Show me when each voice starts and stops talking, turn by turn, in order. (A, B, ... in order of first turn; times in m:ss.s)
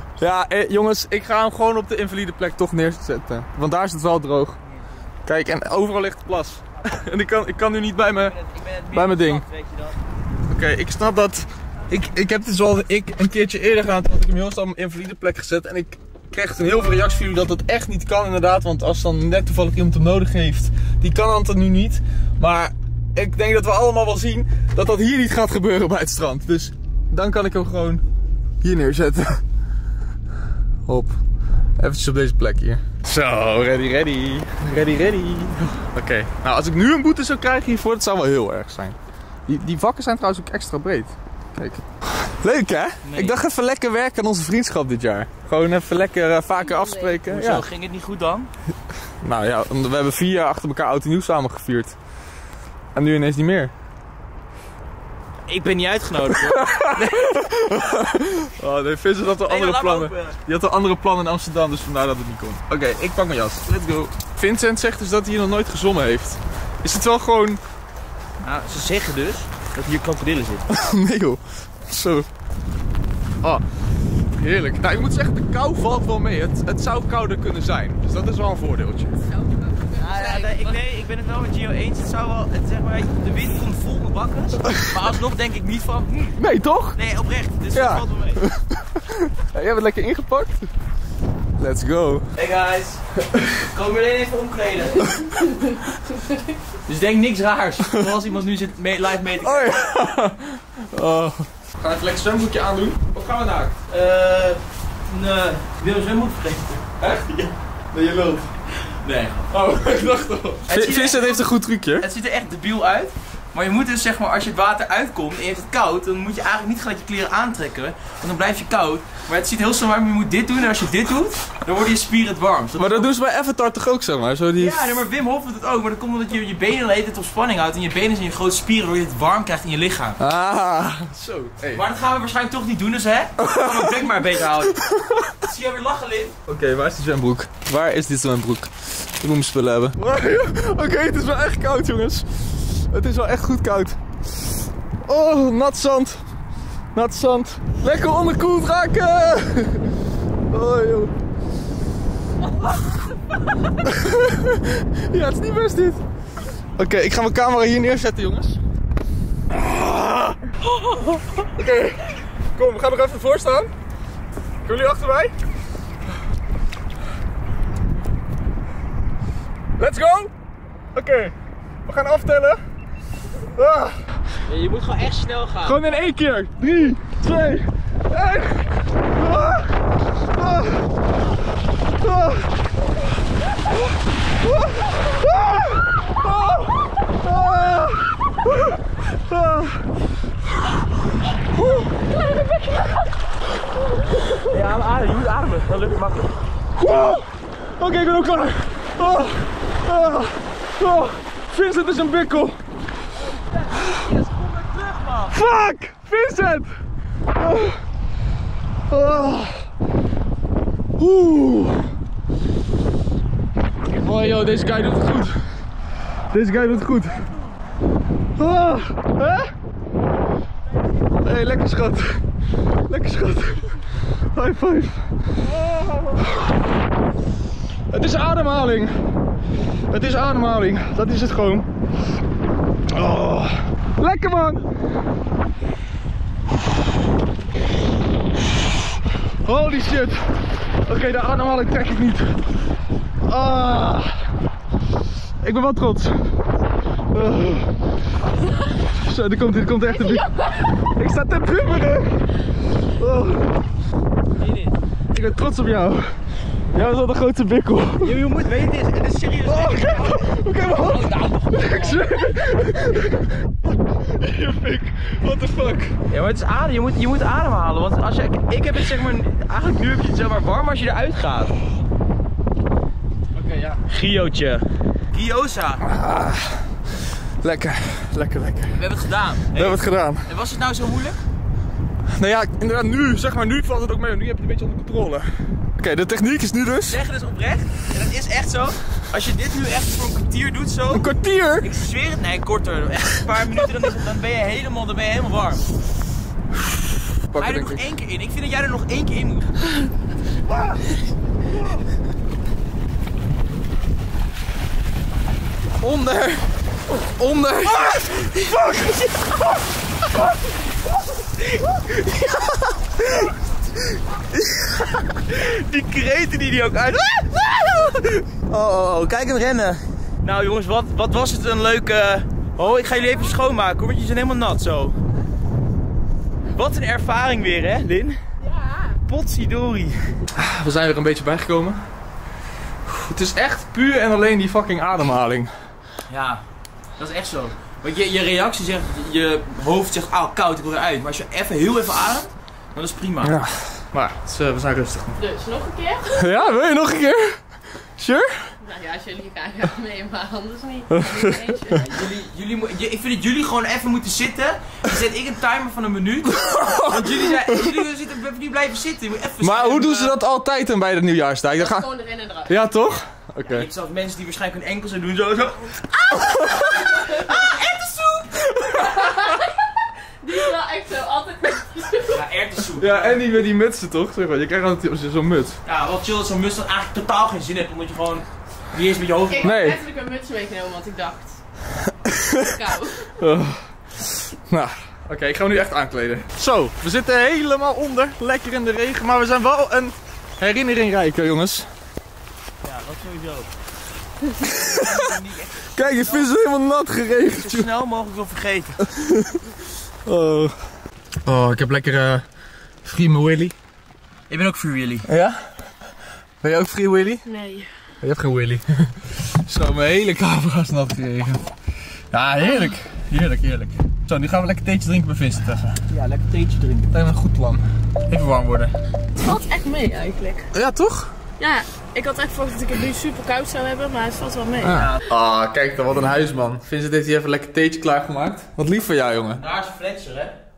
0:00.2-0:04.6 A
0:04.7-0:05.0 B
0:05.2-0:08.4 A
0:08.2-0:10.0 B
0:08.9-0:09.4 A
0:10.5-0:28.0 A
0:28.6-0:29.4 A
0:30.9-0:31.2 A
0:31.8-0:39.0 A
0:39.5-0:47.6 A
0:43.0-0:43.4 B
0:46.5-0:47.2 C
0:47.3-0:48.5 B
0:49.2-0:52.0 A
0:53.0-0:53.7 A
0:55.5-0:57.4 B
0:56.5-1:07.6 A
0:59.4-1:00.4 B
1:08.4-1:10.6 B
1:10.7-1:12.3 A
1:14.4-1:19.2 A
1:19.3-1:20.8 C
1:20.0-1:26.4 B
1:24.7-1:24.9 A
1:26.4-1:27.0 A
1:27.0-1:28.4 B
1:27.7-1:30.7 A
1:31.6-1:32.3 A
1:32.4-1:33.0 B
1:33.3-1:33.6 A
1:33.6-1:35.2 B
1:35.1-1:35.5 A
1:36.9-1:39.8 B
1:39.4-1:43.8 A
1:43.9-1:47.0 B
1:47.0-1:48.5 A
1:48.9-1:49.5 B
1:49.5-1:52.1 A
1:50.7-2:03.1 B
2:02.8-2:05.0 A
2:04.6-2:10.2 B
2:10.2-2:11.8 A
2:11.7-2:14.8 B
2:13.4-2:14.0 A
2:14.7-2:15.4 A
2:15.4-2:16.4 B
2:16.5-2:24.0 A
2:25.0-2:26.2 A
2:26.9-2:29.9 A
2:30.5-2:31.1 A
2:33.7-2:36.0 A
2:36.8-2:38.6 A
2:39.5-2:40.5 A
2:41.4-2:43.7 A
2:44.6-2:45.4 A
2:49.8-2:50.3 A
2:50.9-2:51.3 A
2:51.9-2:52.6 A
2:53.6-2:54.0 A
2:54.5-2:55.8 B
2:55.6-3:00.9 A
3:02.0-3:02.5 A
3:04.4-3:09.8 A
3:11.6-3:11.9 A
3:12.4-3:12.9 C
3:14.4-3:16.4 B
3:16.8-3:22.6 A
3:23.2-3:25.4 B
3:25.3-3:26.7 A
3:27.4-3:27.8 A
3:28.9-3:29.7 A
3:31.0-3:31.9 A
3:34.0-3:35.4 A
3:36.3-3:37.3 A
3:38.4-3:39.5 A
3:41.2-3:42.2 A
3:42.9-3:43.8 A
3:44.3-3:46.5 A
3:47.9-3:48.9 A
3:49.9-3:51.7 A
3:52.9-3:54.7 A
3:59.4-4:02.4 A
4:03.3-4:04.3 A
4:05.4-4:06.4 A
4:07.1-4:07.7 A
4:08.8-4:10.3 A
4:09.8-4:10.9 C
4:10.9-4:12.3 A
4:13.0-4:13.6 A
4:14.4-4:14.8 B
4:15.1-4:16.2 A
4:16.7-4:18.2 A
4:18.0-4:22.3 B
4:19.5-4:26.0 A
4:26.1-4:31.6 B
4:33.4-4:33.8 A
4:33.9-4:35.8 B
4:35.8-4:36.8 A
4:37.4-4:38.8 A
4:38.8-4:41.2 B
4:39.5-4:40.3 A
4:42.1-4:47.0 A
4:46.9-4:55.6 B
4:50.9-4:51.7 A
4:57.3-4:57.8 A
4:57.4-4:59.5 B
5:00.5-5:01.0 A
5:05.8-5:06.5 A
5:07.1-5:08.8 A
5:08.3-5:08.7 B
5:11.6-5:12.4 B
5:14.5-5:25.0 B
5:26.5-5:28.2 B
5:28.4-5:29.0 C
5:29.1-5:30.1 B
5:30.4-5:31.8 A
5:32.9-5:35.5 A
5:36.1-5:36.4 B
5:37.0-5:43.4 B
5:43.2-5:45.2 A
5:45.2-5:46.3 C
5:46.1-5:47.4 A
5:48.0-5:48.5 A
5:48.6-5:52.0 C
5:50.9-5:51.8 A
5:51.9-6:00.2 B
5:56.3-5:57.6 A
5:59.4-6:01.9 A
6:01.5-6:03.0 C
6:02.5-6:03.7 A
6:03.5-6:08.4 B
6:06.1-6:06.8 A
6:08.4-6:09.4 A
6:08.7-6:12.2 C
6:12.1-6:13.2 B
6:12.8-6:15.6 A
6:15.6-6:19.5 B
6:19.3-6:21.4 C
6:19.4-6:19.8 A
6:21.8-6:22.6 A
6:22.4-6:23.1 C
6:23.2-6:31.7 A
6:32.6-6:33.5 B
6:34.4-6:35.1 A
6:34.5-6:36.3 B
6:35.8-6:37.7 A
6:37.3-6:38.8 B
6:38.9-6:39.5 A
6:40.0-6:40.6 A
6:41.3-6:42.2 A
6:42.8-6:43.6 A
6:44.3-6:45.1 B
6:45.0-6:45.4 A
6:46.4-6:47.2 A
6:47.2-6:47.7 C
6:48.0-6:51.5 A
6:52.1-6:55.8 A
6:55.9-6:56.9 B
6:56.9-6:58.7 A
6:59.2-7:00.5 C
7:00.5-7:01.1 A
7:01.4-7:04.9 C
7:04.6-7:09.4 A
7:04.7-7:05.0 B
7:09.4-7:10.4 B